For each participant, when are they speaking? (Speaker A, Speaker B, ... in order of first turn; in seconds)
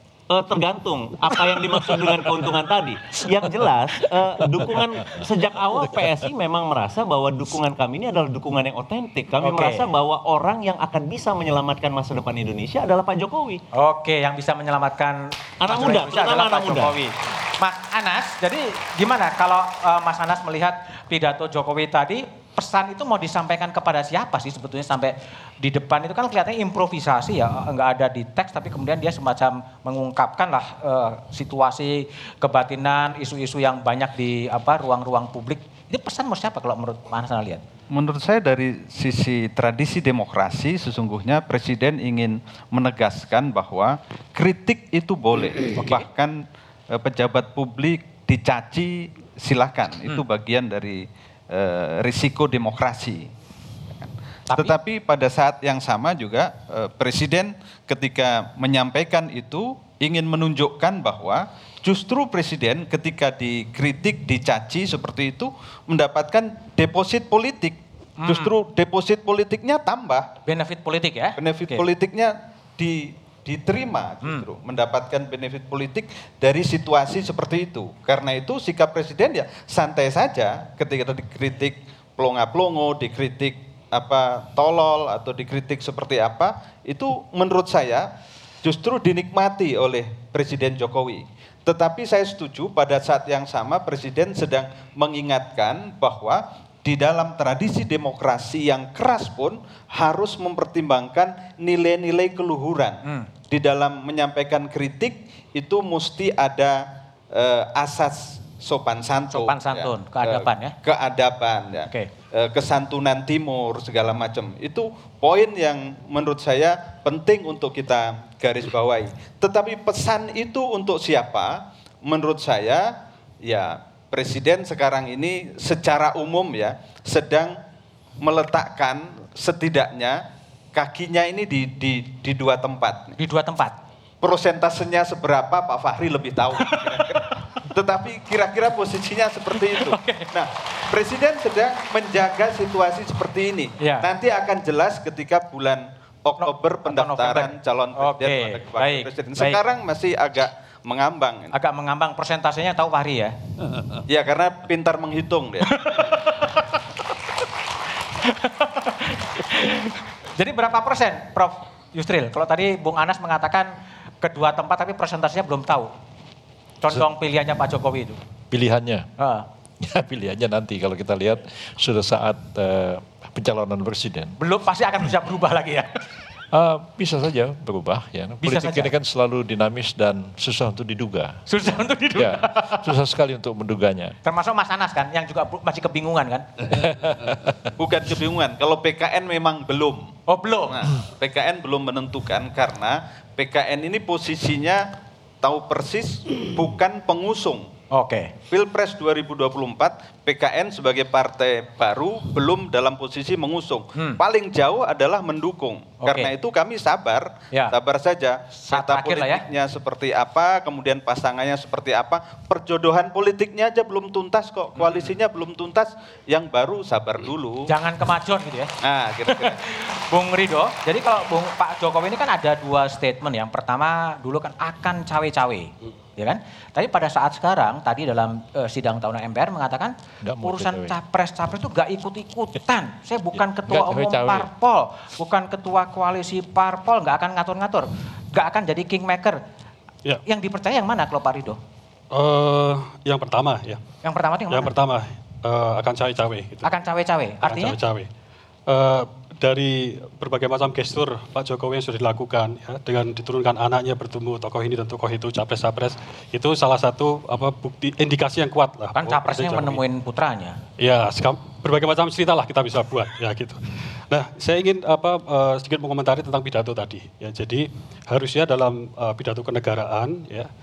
Speaker A: 0.3-13.6, 15.6-16.9
Speaker B: 1.9-2.5, 4.5-6.2, 168.5-169.1, 169.8-174.3, 176.5-181.3, 182.2-184.1, 186.8-187.7, 230.2-231.0, 233.7-234.4
Speaker C: 9.4-9.8, 13.7-37.6, 45.8-46.0, 68.2-68.5, 70.5-71.8, 109.3-110.7, 133.2-133.8, 139.7-140.3, 143.8-144.1, 146.4-149.6, 151.5-153.3, 155.8-156.6, 158.2-163.7, 164.2-165.9, 166.8-168.2, 169.2-169.4, 174.4-175.9, 178.4-178.9, 181.5-182.8, 184.2-186.4, 190.3-190.8, 197.9-198.3, 206.0-206.3, 208.7-209.4, 214.8-215.1, 217.7-218.7, 219.3-239.4, 240.2-241.6, 244.0-244.7, 246.6-247.8, 258.9-260.6
Speaker D: 37.9-46.3, 46.9-53.3, 54.5-70.2, 71.4-88.0, 88.6-103.0, 103.5-106.8, 107.3-121.5, 122.1-122.8, 123.5-127.5, 128.2-130.2, 130.7-133.2, 134.2-151.5, 154.1-155.7, 187.8-190.0, 190.7-194.8, 195.4-197.7, 198.5-217.6, 218.8-219.6
Speaker E: 242.1-243.8, 244.5-246.8, 247.4-248.1, 248.7-259.8, 260.8-270.5